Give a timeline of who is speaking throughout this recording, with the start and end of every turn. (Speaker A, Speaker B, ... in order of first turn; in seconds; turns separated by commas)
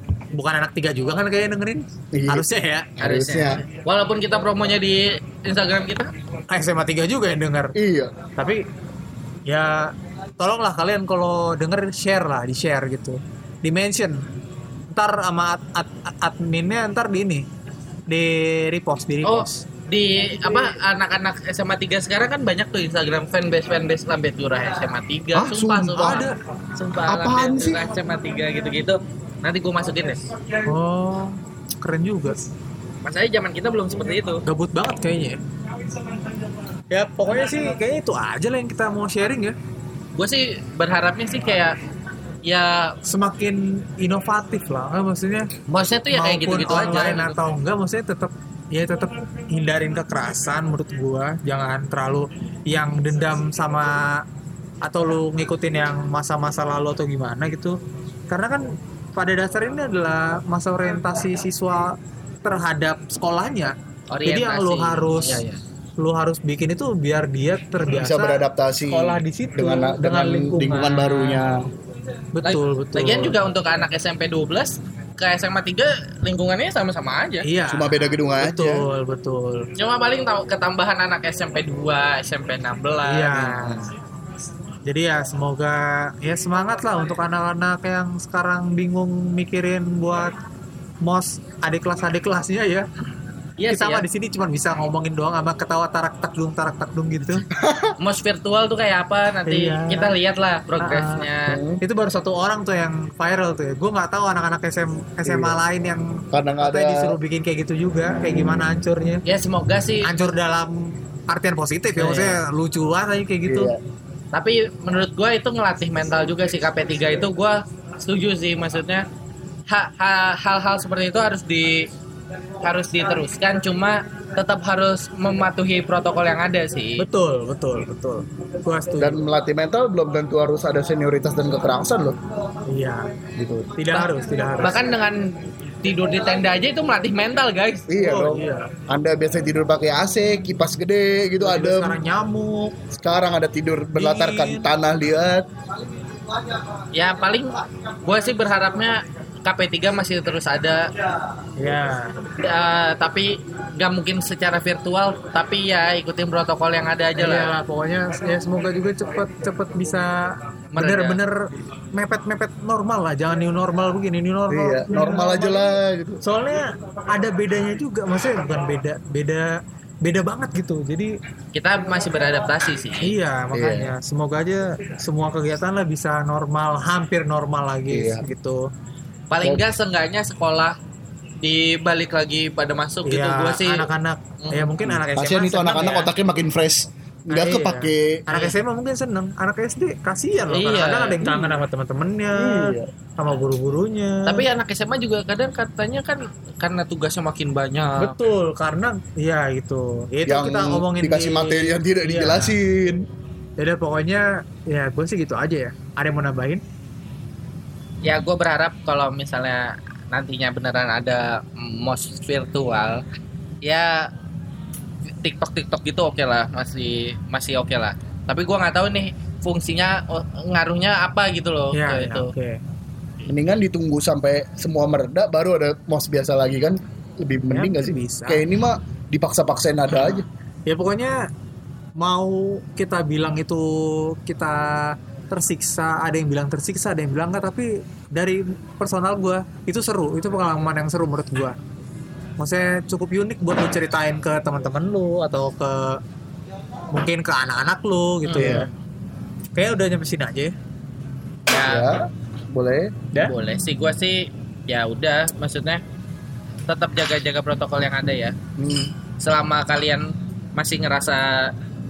Speaker A: 0.3-2.9, Speaker B: 2.1-2.5, Speaker B: 3.0-3.6, Speaker C: 3.0-6.1, Speaker A: 6.5-7.8, Speaker B: 7.8-8.1, Speaker A: 8.4-8.7, Speaker A: 9.5-14.3, Speaker A: 14.9-17.5, Speaker A: 18.1-19.6, Speaker C: 19.2-30.2, Speaker B: 25.3-26.3, Speaker A: 26.0-26.4, Speaker B: 27.1-27.8, Speaker A: 30.6-32.4, Speaker C: 33.0-34.4, Speaker A: 34.5-35.4, Speaker A: 36.9-39.6, Speaker C: 40.2-41.8, Speaker C: 42.4-43.0, Speaker A: 43.0-45.5, Speaker C: 45.7-47.4, Speaker A: 46.1-54.2, Speaker A: 54.8-57.8, Speaker A: 58.3-65.4, Speaker C: 64.1-65.6, Speaker A: 66.0-71.4, Speaker B: 68.0-71.7, Speaker A: 72.3-73.4, Speaker C: 72.4-77.5, Speaker A: 77.4-79.7, Speaker B: 77.7-78.9, Speaker C: 79.8-83.6, Speaker A: 83.1-83.9, Speaker B: 83.6-83.9, Speaker A: 84.9-90.4, Speaker A: 91.0-92.9, Speaker C: 93.6-94.0, Speaker A: 93.7-97.5, Speaker B: 97.5-98.0, Speaker C: 98.0-101.6, Speaker A: 99.5-100.1, Speaker A: 100.8-101.2, Speaker B: 101.5-101.8, Speaker A: 101.8-109.2, Speaker B: 105.3-105.6, Speaker B: 106.3-107.2, Speaker C: 109.2-110.1, Speaker A: 110.0-113.7, Speaker C: 112.0-112.4, Speaker B: 113.5-113.8, Speaker C: 114.3-119.1, Speaker C: 119.7-121.9, Speaker C: 122.6-127.1, Speaker A: 127.0-129.3, Speaker B: 129.0-132.2, Speaker A: 132.7-133.1, Speaker B: 133.4-133.9, Speaker A: 133.8-134.8, Speaker C: 133.9-137.9, Speaker B: 137.9-142.0, Speaker A: 138.0-138.7, Speaker A: 141.4-142.7, Speaker B: 142.9-145.5, Speaker A: 144.0-144.7, Speaker C: 146.9-150.9, Speaker A: 151.6-152.2, Speaker C: 152.4-157.6, Speaker A: 157.2-171.2, Speaker C: 160.7-161.2, Speaker B: 164.5-166.2, Speaker C: 171.5-173.1, Speaker A: 173.0-178.7, Speaker B: 173.5-173.9, Speaker B: 177.9-178.3, Speaker C: 179.3-180.8, Speaker C: 181.4-183.9, Speaker A: 183.1-186.1, Speaker C: 184.4-184.7, Speaker B: 184.8-188.2, Speaker A: 187.3-194.4, Speaker C: 190.5-191.4, Speaker B: 192.3-192.9, Speaker C: 194.3-198.2, Speaker A: 198.0-202.6, Speaker B: 200.3-203.1, Speaker A: 203.6-206.6, Speaker C: 208.0-213.0, Speaker C: 213.6-214.1, Speaker C: 215.2-222.3, Speaker A: 221.7-222.6, Speaker B: 223.3-230.3, Speaker A: 227.5-228.4, Speaker A: 230.7-231.3, Speaker A: 232.0-241.6, Speaker A: 242.4-246.0, Speaker A: 246.9-248.7, Speaker C: 248.2-248.7, Speaker B: 248.4-248.7, Speaker A: 249.6-250.6, Speaker C: 251.5-252.0, Speaker B: 251.6-253.2, Speaker C: 253.2-255.8, Speaker C: 256.7-258.4, Speaker B: 258.6-258.9, Speaker C: 259.2-261.6